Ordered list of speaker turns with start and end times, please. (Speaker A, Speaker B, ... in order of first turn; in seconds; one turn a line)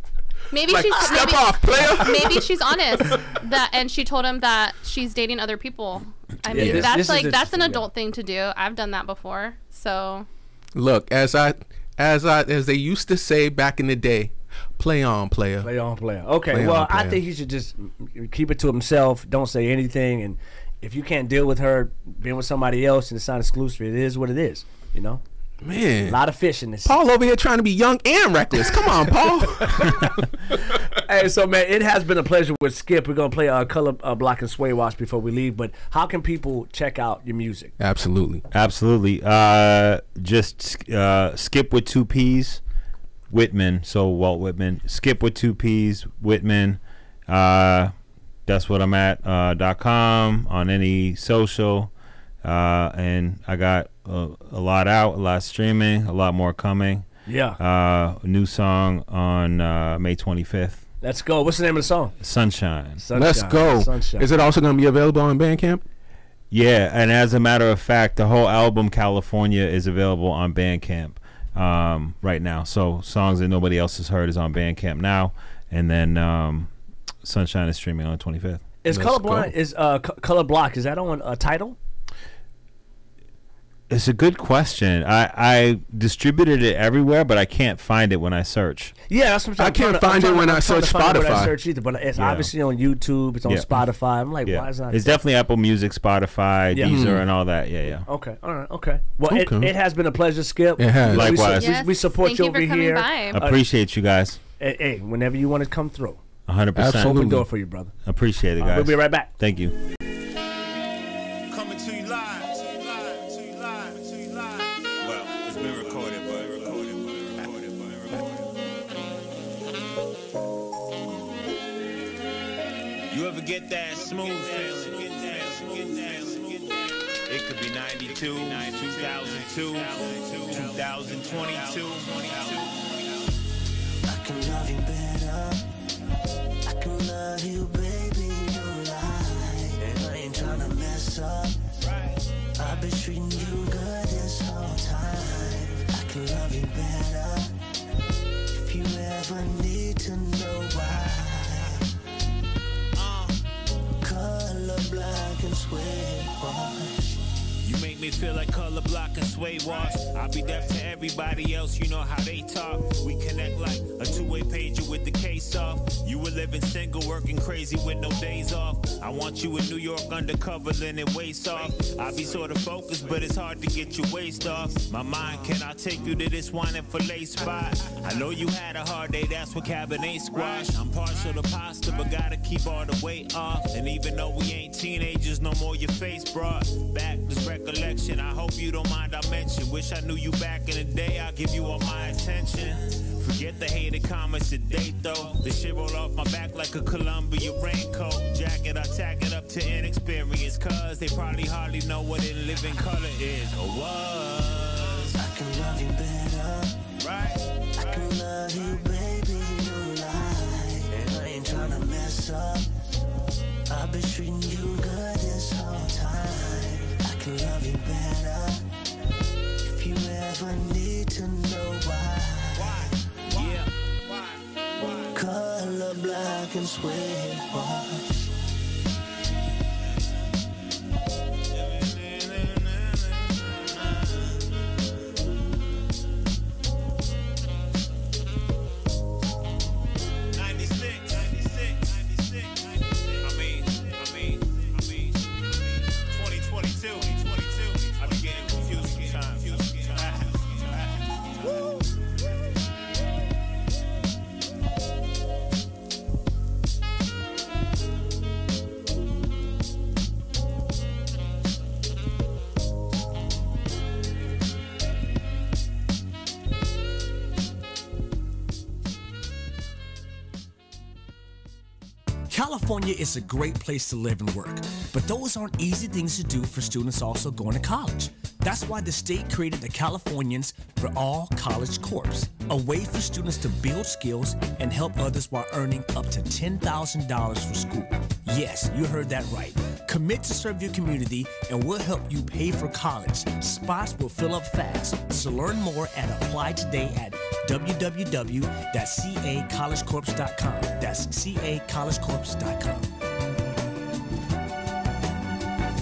Speaker A: 0.5-10.3
Speaker B: 0.7-2.5
Speaker C: 6.5-7.8
Speaker B: 6.5-6.9
Speaker B: 10.7-15.7
Speaker C: 15.6-25.2
Speaker B: 16.5-17.2
Speaker B: 25.6-26.2
Speaker C: 26.0-26.9
Speaker B: 26.8-30.0
Speaker C: 31.0-37.7
Speaker B: 37.8-38.4
Speaker D: 38.5-42.6
Speaker D: 43.3-47.9
Speaker D: 48.5-51.9
Speaker D: 52.4-57.1
Speaker C: 57.3-57.6
Speaker D: 57.6-60.8
Speaker C: 61.0-62.1
Speaker D: 62.2-63.0
Speaker C: 63.0-64.3
Speaker B: 63.1-65.8
Speaker D: 66.5-76.7
Speaker D: 77.2-78.6
Speaker C: 78.8-81.8
Speaker B: 78.9-79.5
Speaker D: 83.9-88.9
Speaker C: 89.1-95.2
Speaker B: 89.6-91.6
Speaker D: 92.2-92.5
Speaker D: 93.5-93.7
Speaker D: 94.4-98.0
Speaker C: 96.7-97.0
Speaker B: 96.8-97.2
Speaker C: 98.0-103.6
Speaker B: 99.3-99.7
Speaker B: 100.8-101.5
Speaker D: 101.0-101.8
Speaker A: 101.5-103.4
Speaker D: 103.3-104.4
Speaker C: 104.6-106.2
Speaker D: 106.5-107.3
Speaker B: 106.8-107.5
Speaker C: 107.0-107.9
Speaker D: 108.0-109.8
Speaker C: 108.6-109.3
Speaker E: 111.5-118.4
Speaker E: 123.1-133.3
Speaker F: 134.1-135.6
Speaker F: 136.6-141.6
Speaker E: 141.8-142.2
Speaker F: 142.6-147.5
Speaker F: 148.5-151.8
Speaker E: 152.9-153.4
Speaker F: 154.0-157.0
Speaker E: 157.6-205.2
Speaker F: 205.2-206.8
Speaker E: 207.0-208.1
Speaker F: 207.8-212.7
Speaker F: 213.7-218.7
Speaker F: 219.6-222.9
Speaker E: 222.5-225.2
Speaker F: 225.1-228.1
Speaker E: 231.5-234.4
Speaker E: 240.3-251.6
Speaker C: 272.3-302.9